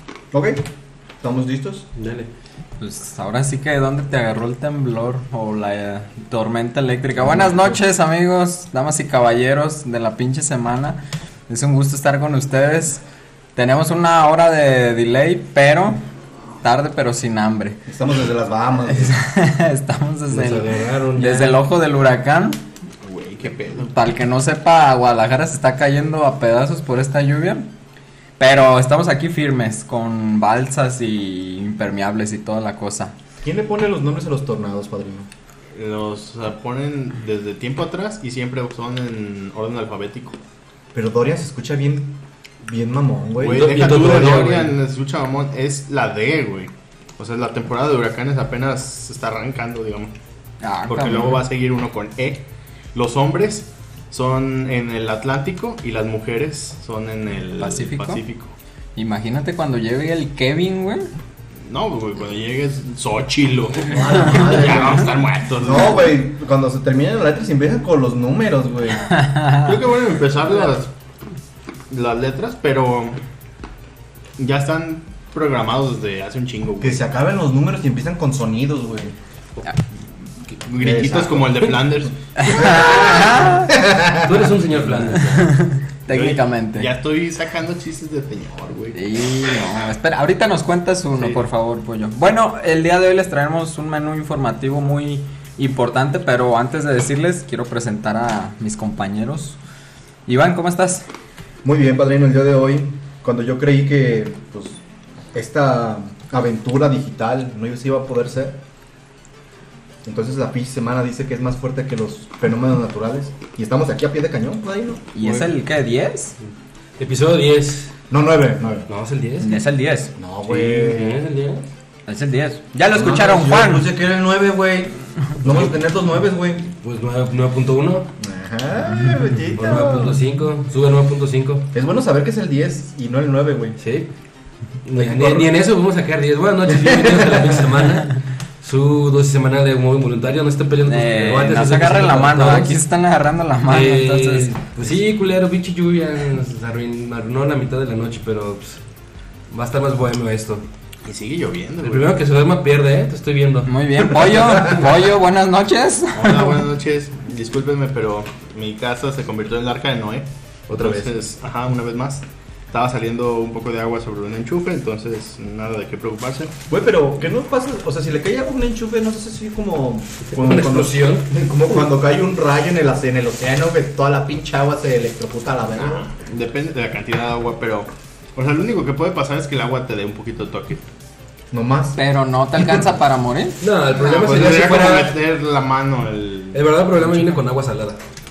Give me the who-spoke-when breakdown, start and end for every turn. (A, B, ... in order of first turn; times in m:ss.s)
0:00.3-0:00.6 A
0:01.2-0:01.9 A
0:02.0-0:02.3 B
0:02.8-0:13.0 C
0:07.3-0:07.7 A
0:13.5-0:16.0 C
0:16.6-0:17.8 C
0:17.9-0:19.2 A
0:18.9-0:22.6 C
0:20.3-0:21.6 B
0:23.0-0:23.9 D
0:23.9-0:27.7 C
0:28.4-0:33.1 C
0:33.4-0:35.3 A
0:35.7-0:40.4 D
0:40.9-0:44.4 A
0:43.4-0:50.1 D
0:43.4-0:44.7 B
0:50.6-0:51.4 C
0:50.9-0:58.5 D
0:57.6-0:58.2 C
0:59.0-1:01.1 C
1:01.6-1:06.1 D
1:03.9-1:09.0 A
1:09.1-1:09.8 C
1:09.6-1:10.9 D
1:11.9-1:13.2 D
1:14.4-1:17.0 D
1:16.8-1:19.2 A
1:20.5-1:23.3 D
1:20.8-1:21.7 A
1:22.4-1:23.7 C
1:22.6-1:24.4 A
1:24.1-1:25.5 B
1:25.0-1:26.9 C
1:26.1-1:29.0 D
1:28.9-1:39.6 C
1:31.1-1:31.4 D
1:40.3-1:41.0 C
1:41.6-1:44.8 A
1:45.3-1:48.6 A
1:50.0-1:55.4 A
1:55.1-1:56.4 C
1:57.0-1:57.9 B
1:58.1-1:58.9 A
1:58.9-1:59.6 B
1:59.4-2:00.1 C
2:00.2-2:01.3 A
2:00.5-2:01.7 B
2:02.1-2:03.9 C
2:02.9-2:06.7 A
2:05.4-2:05.7 B
2:06.8-2:08.1 B
2:08.2-2:10.2 A
2:09.0-2:09.2 C
2:09.5-2:11.7 B
2:11.7-2:13.8 A
2:13.8-2:14.1 B
2:14.8-2:22.8 B
2:15.0-2:15.5 A
2:16.7-2:17.5 A
2:20.8-2:24.5 C
2:23.7-2:28.8 B
2:29.5-2:30.6 B
2:31.0-2:32.2 D
2:31.8-2:34.7 B
2:33.6-2:36.6 C
2:36.1-2:46.5 D
2:40.7-2:41.1 B
2:46.7-2:56.0 A
2:50.3-2:51.3 B
2:55.8-3:00.8 D
3:01.5-3:02.0 A
3:02.0-3:03.6 C
3:03.6-3:05.2 B
3:03.9-3:06.6 D
3:06.5-3:08.0 B